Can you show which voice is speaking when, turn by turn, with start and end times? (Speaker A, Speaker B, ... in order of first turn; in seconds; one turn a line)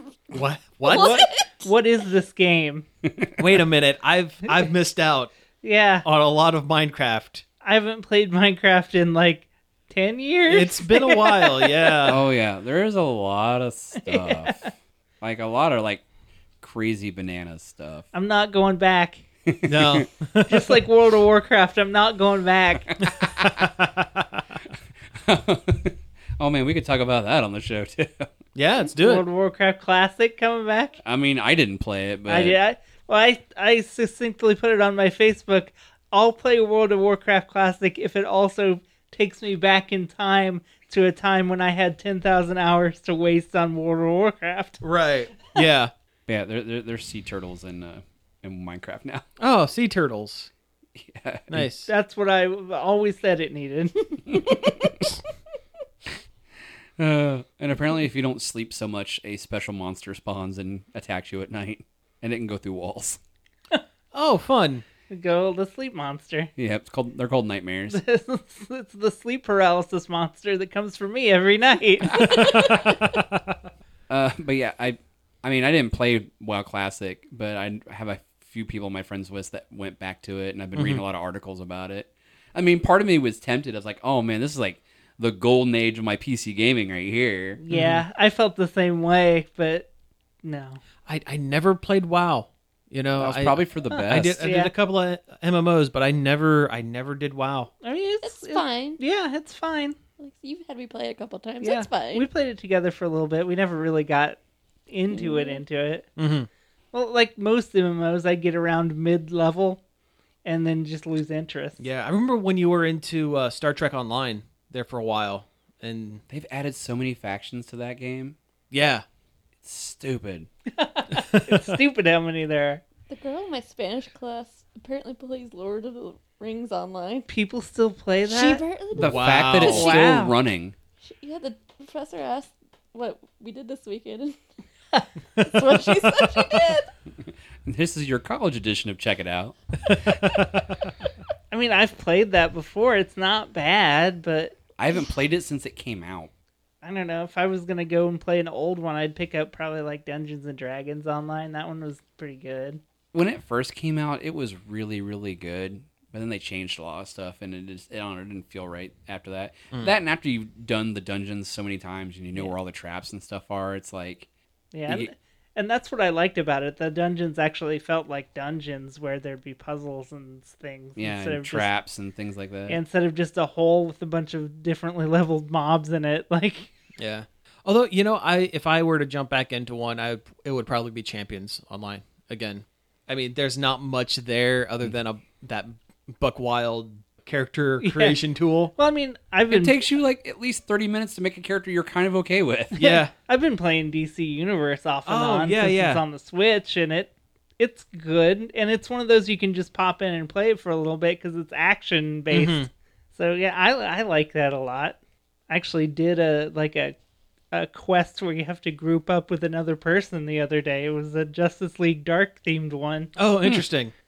Speaker A: 0.3-1.2
Speaker B: 0.9-2.9
Speaker C: 0.9-1.6
Speaker D: 3.1-3.4
Speaker A: 3.4-5.3
Speaker B: 5.6-6.1
Speaker A: 6.0-7.4
Speaker B: 7.6-11.9
Speaker A: 10.5-12.2
Speaker D: 12.1-16.1
Speaker B: 14.1-14.6
Speaker D: 16.6-18.1
Speaker B: 18.1-19.2
Speaker D: 19.5-20.1
Speaker A: 19.6-20.8
Speaker B: 20.5-22.9
Speaker D: 22.9-23.6
Speaker A: 23.2-24.4
Speaker D: 25.2-28.3
Speaker A: 28.6-29.2
Speaker B: 29.0-31.0
Speaker D: 31.0-32.6
Speaker B: 32.3-44.8
Speaker A: 44.8-45.9
Speaker D: 46.3-49.2
Speaker A: 49.4-50.5
Speaker D: 51.0-51.7
Speaker A: 51.5-51.9
Speaker B: 51.9-54.5
Speaker D: 54.3-54.6
Speaker D: 57.0-63.2
Speaker A: 64.1-64.8
Speaker B: 65.1-66.5
Speaker D: 66.6-68.0
Speaker B: 67.9-72.8
Speaker A: 72.1-73.5
Speaker D: 74.1-87.6
Speaker A: 80.8-81.0
Speaker B: 87.6-89.9
Speaker A: 87.7-88.0
Speaker B: 90.4-90.8
Speaker A: 91.1-97.7
Speaker D: 93.2-94.4
Speaker B: 93.9-94.7
Speaker B: 97.8-100.0
Speaker C: 98.2-99.0
Speaker C: 100.2-102.3
Speaker B: 101.6-104.4
Speaker B: 104.9-106.1
Speaker C: 105.1-105.6
Speaker A: 106.2-106.5
Speaker B: 106.9-109.8
Speaker B: 110.4-111.8
Speaker A: 111.8-116.2
Speaker D: 116.3-118.4
Speaker A: 118.7-119.0
Speaker D: 119.6-120.5
Speaker B: 120.7-122.8
Speaker A: 121.1-121.8
Speaker C: 123.1-127.3
Speaker B: 127.3-128.6
Speaker C: 128.2-130.0
Speaker D: 128.9-130.7
Speaker A: 129.0-129.9
Speaker B: 129.6-130.3
Speaker C: 131.0-134.4
Speaker B: 134.9-135.6
Speaker C: 135.4-136.9
Speaker D: 137.6-139.6
Speaker A: 139.9-140.9
Speaker B: 141.5-144.6
Speaker D: 144.8-146.3
Speaker B: 146.8-152.8
Speaker D: 153.1-164.3
Speaker B: 164.7-171.7
Speaker D: 171.0-172.8
Speaker B: 172.7-176.7
Speaker A: 177.0-188.7
Speaker B: 187.8-188.2
Speaker B: 188.8-189.8
Speaker D: 189.5-192.8
Speaker B: 192.7-204.9
Speaker A: 192.8-193.1
Speaker A: 195.1-196.0
Speaker A: 202.3-202.7
Speaker B: 205.5-206.9
Speaker B: 207.5-213.1
Speaker A: 213.2-213.9